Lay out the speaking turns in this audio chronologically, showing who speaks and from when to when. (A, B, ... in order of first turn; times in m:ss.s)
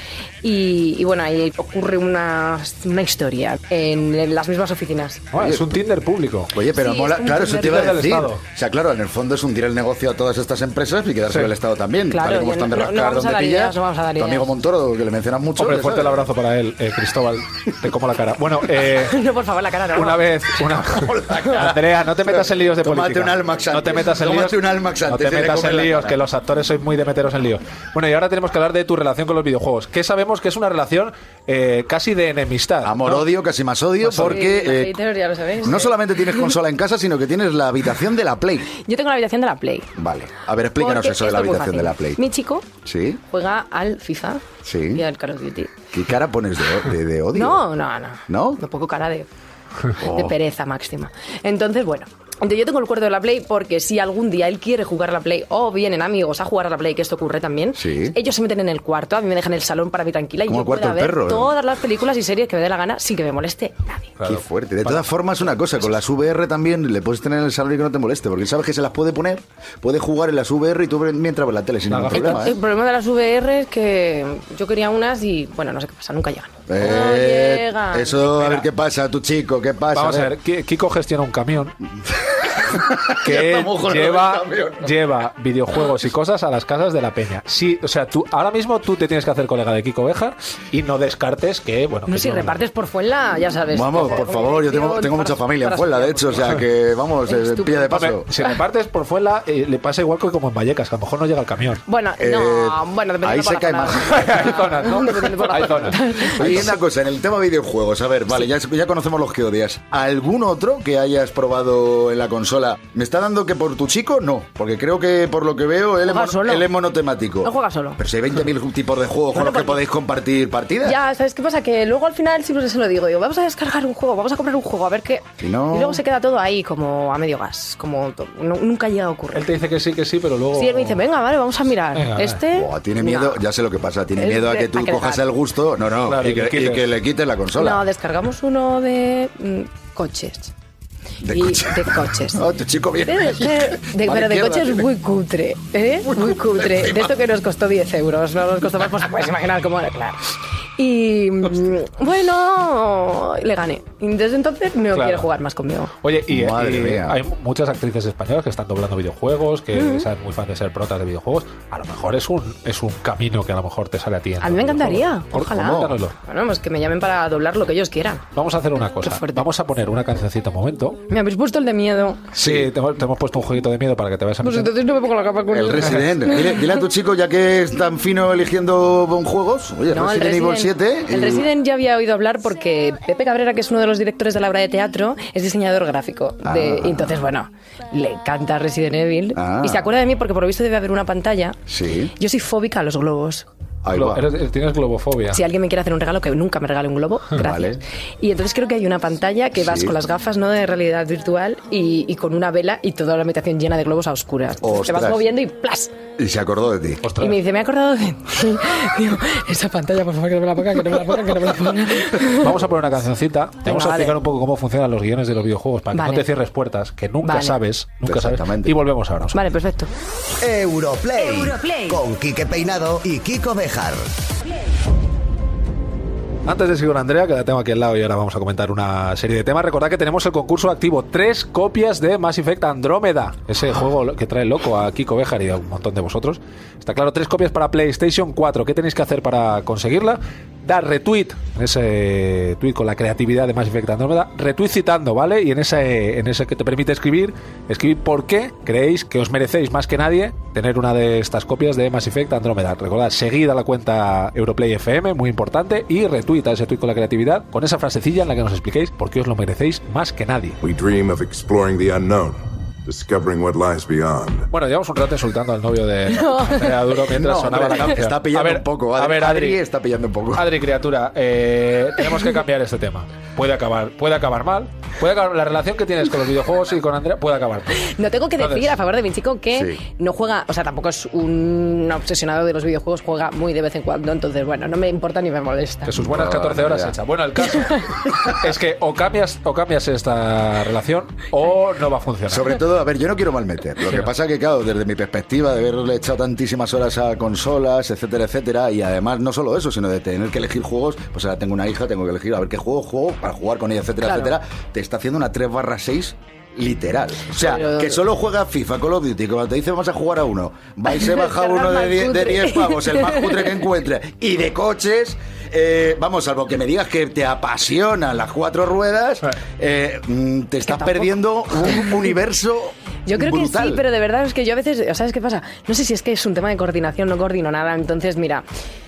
0:00.4-0:05.3 A
0:05.3-0:06.5 B
0:05.4-0:05.7 C
0:06.5-0:16.3 C
0:06.7-0:08.0 A
0:07.4-0:08.4 B
0:12.1-0:14.5 A
0:15.6-0:19.2 B
0:18.8-0:20.3 A
0:19.9-0:33.3 B
0:21.0-0:26.2 C
0:32.8-0:34.9 C
0:34.0-0:34.4 B
0:34.2-0:36.5 A
0:35.6-0:38.7 C
0:38.8-0:39.9 A
0:40.0-0:42.2 C
0:40.8-0:42.7 A
0:42.8-0:43.2 C
0:43.3-0:45.7 A
0:44.6-0:45.0 C
0:45.9-0:47.7 C
0:47.3-0:49.3 A
0:48.3-0:48.6 C
0:50.0-0:50.3 C
0:50.0-1:04.2 A
0:57.7-0:58.2 C
1:00.5-1:01.5 C
1:04.2-1:05.8 B
1:04.2-1:12.5 C
1:11.9-1:12.5 B
1:12.1-1:18.3 A
1:16.7-1:20.3 C
1:18.4-1:18.7 B
1:19.9-1:21.8 B
1:22.3-1:25.0 C
1:23.2-1:32.6 B
1:32.1-1:36.4 A
1:33.7-1:38.3 C
1:37.3-1:37.9 A
1:37.9-1:41.8 B
1:41.8-1:46.7 A
1:42.2-1:44.5 C
1:44.0-1:46.8 B
1:46.4-2:01.0 C
1:56.0-1:56.7 A
1:57.4-1:58.0 A
1:59.3-1:59.8 A
2:00.8-2:09.5 A
2:05.4-2:06.0 C
2:09.3-2:11.0 B
2:10.5-2:13.4 A
2:11.9-2:12.4 B
2:12.5-2:17.8 C
2:14.2-2:15.3 A
2:16.0-2:16.9 B
2:17.5-2:20.5 A
2:21.2-2:24.9 C
2:21.3-2:22.4 A
2:23.0-2:35.9 A
2:34.9-2:35.3 B
2:36.0-2:46.2 B
2:36.3-2:37.2 C
2:39.7-2:40.1 A
2:44.4-2:48.2 A
2:45.5-2:46.0 C
2:48.3-2:51.0 B
2:49.0-2:49.5 A
2:51.1-2:52.3 A
2:52.3-2:54.7 B
2:52.4-2:52.7 C
2:54.4-2:56.7 A
2:55.5-3:01.5 C
2:59.9-3:11.6 A
3:06.4-3:07.3 C
3:09.3-3:09.9 C
3:11.7-3:12.1 C
3:12.2-3:13.5 A
3:13.8-3:14.2 C
3:13.9-3:15.4 B
3:15.3-3:26.0 A
3:17.3-3:17.8 C
3:19.6-3:19.9 C
3:24.6-3:25.2 C
3:26.2-3:27.0 C
3:27.0-3:27.4 B
3:27.2-3:32.6 A
3:32.3-3:39.4 B
3:33.6-3:34.2 A
3:35.9-3:36.3 A
3:37.2-3:37.6 A
3:38.0-3:38.8 C
3:39.3-3:39.9 A
3:40.4-3:44.1 D
3:46.5-4:20.6 B
4:20.6-4:24.5 E
4:24.5-4:29.6 B
4:26.1-4:27.0 A
4:27.1-4:30.5 C
4:30.3-4:37.9 B
4:37.8-4:45.9 A
4:38.4-4:38.8 B
4:39.5-4:39.8 C
4:45.8-4:52.6 B
4:46.0-4:47.0 C
4:52.3-5:23.8 C
5:04.0-5:04.4 A
5:07.2-5:08.0 A
5:10.9-5:13.5 A
5:20.7-5:21.9 A
5:23.1-5:28.4 A